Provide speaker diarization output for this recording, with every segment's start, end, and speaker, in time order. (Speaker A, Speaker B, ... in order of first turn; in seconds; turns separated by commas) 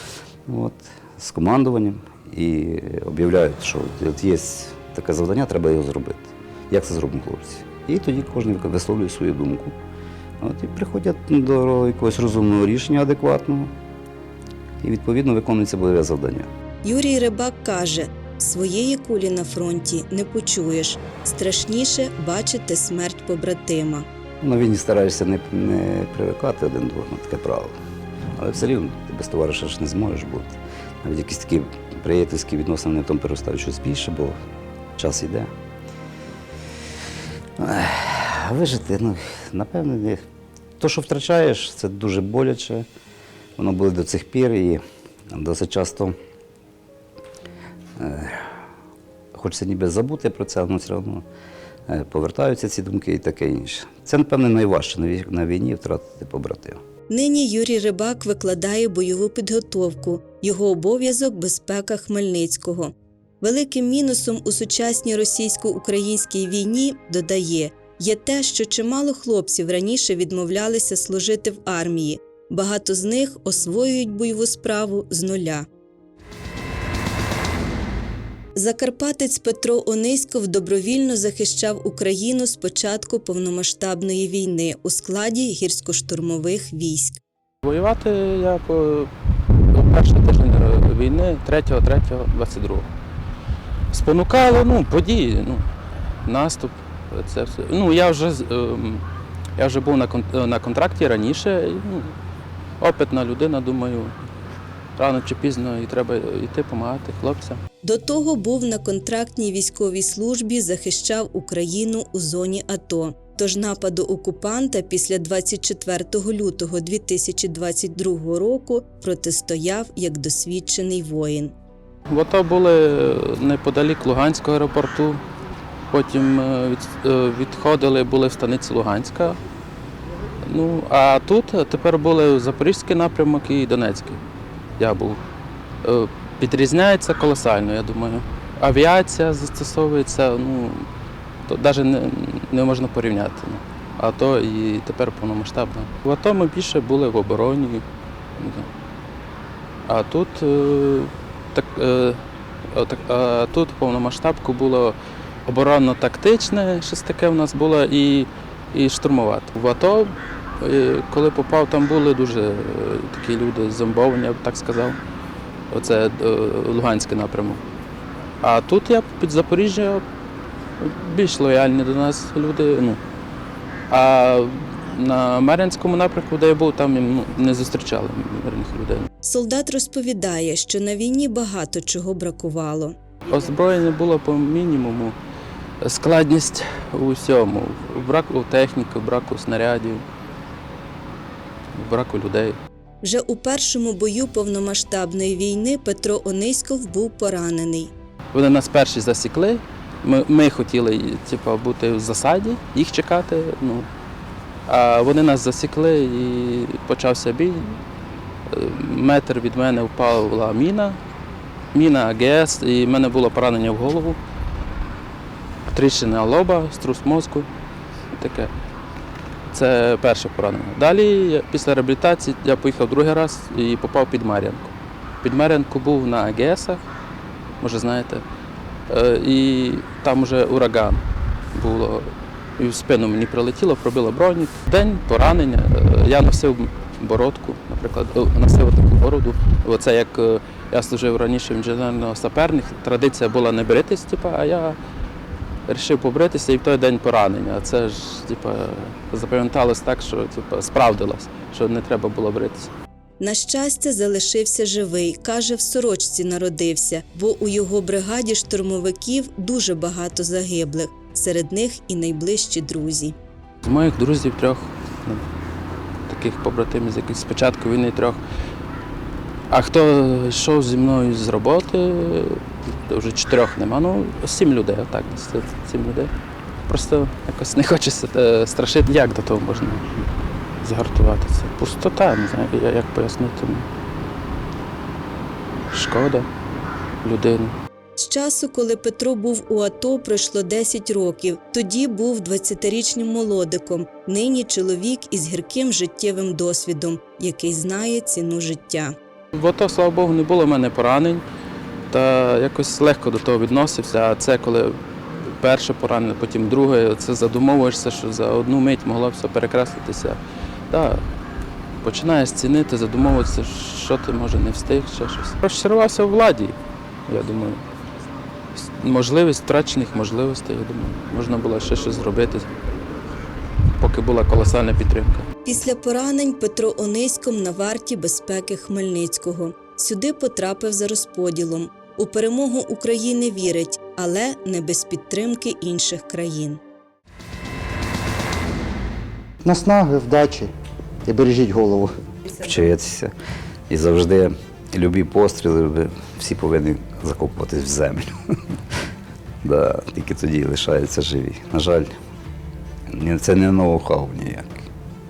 Speaker A: 0.5-9.8, Speaker A: 10.4-13.7, Speaker A: 14.8-16.5, Speaker B: 16.8-24.1, Speaker A: 24.4-27.8, Speaker A: 28.4-34.4, Speaker A: 35.0-35.5, Speaker A: 37.6-40.2, Speaker A: 40.8-42.9, Speaker A: 43.6-46.1, Speaker A: 48.0-48.3, Speaker A: 49.4-51.2, Speaker A: 51.9-56.8, Speaker B: 57.1-75.7, Speaker B: 78.5-87.2, Speaker C: 87.6-89.1, Speaker C: 89.7-92.9, Speaker C: 93.9-95.7, Speaker C: 96.2-99.0, Speaker C: 99.6-102.1, Speaker C: 102.8-104.2, Speaker C: 105.0-107.6, Speaker B: 107.8-121.5, Speaker C: 122.1-125.2, Speaker C: 125.9-129.4, Speaker C: 130.4-134.2, Speaker C: 134.8-135.2, Speaker C: 135.8-140.9, Speaker C: 141.5-147.8, Speaker C: 148.4-148.7, Speaker C: 149.9-165.0, Speaker C: 165.7-167.6, Speaker C: 168.4-170.0, Speaker C: 170.8-173.0, Speaker C: 173.9-179.1, Speaker B: 179.2-183.0, Speaker C: 183.3-185.2, Speaker C: 185.8-190.1, Speaker C: 191.8-192.6, Speaker B: 193.0-197.9, Speaker C: 198.3-203.9, Speaker C: 204.7-207.8, Speaker C: 208.5-211.0, Speaker C: 211.7-214.2, Speaker C: 215.7-217.5, Speaker C: 218.1-218.5, Speaker C: 219.5-226.8, Speaker C: 227.6-228.2, Speaker C: 228.9-244.8, Speaker C: 245.7-252.7, Speaker B: 253.2-263.2, Speaker C: 263.6-265.2, Speaker C: 266.1-268.2, Speaker C: 269.5-276.1, Speaker C: 276.7-280.0, Speaker C: 280.6-283.7, Speaker C: 285.7-286.3, Speaker C: 287.0-287.6, Speaker B: 288.0-298.9, Speaker C: 299.3-301.2, Speaker C: 301.9-304.8, Speaker C: 305.4-310.2, Speaker C: 310.7-311.0, Speaker C: 311.8-316.6, Speaker C: 317.1-317.6, Speaker C: 318.7-322.5, Speaker C: 323.8-325.3, Speaker B: 325.4-336.6, Speaker D: 339.4-340.5, Speaker D: 341.1-341.9, Speaker A: 342.4-343.1, Speaker A: 343.7-348.1, Speaker A: 349.4-351.9, Speaker A: 352.9-354.7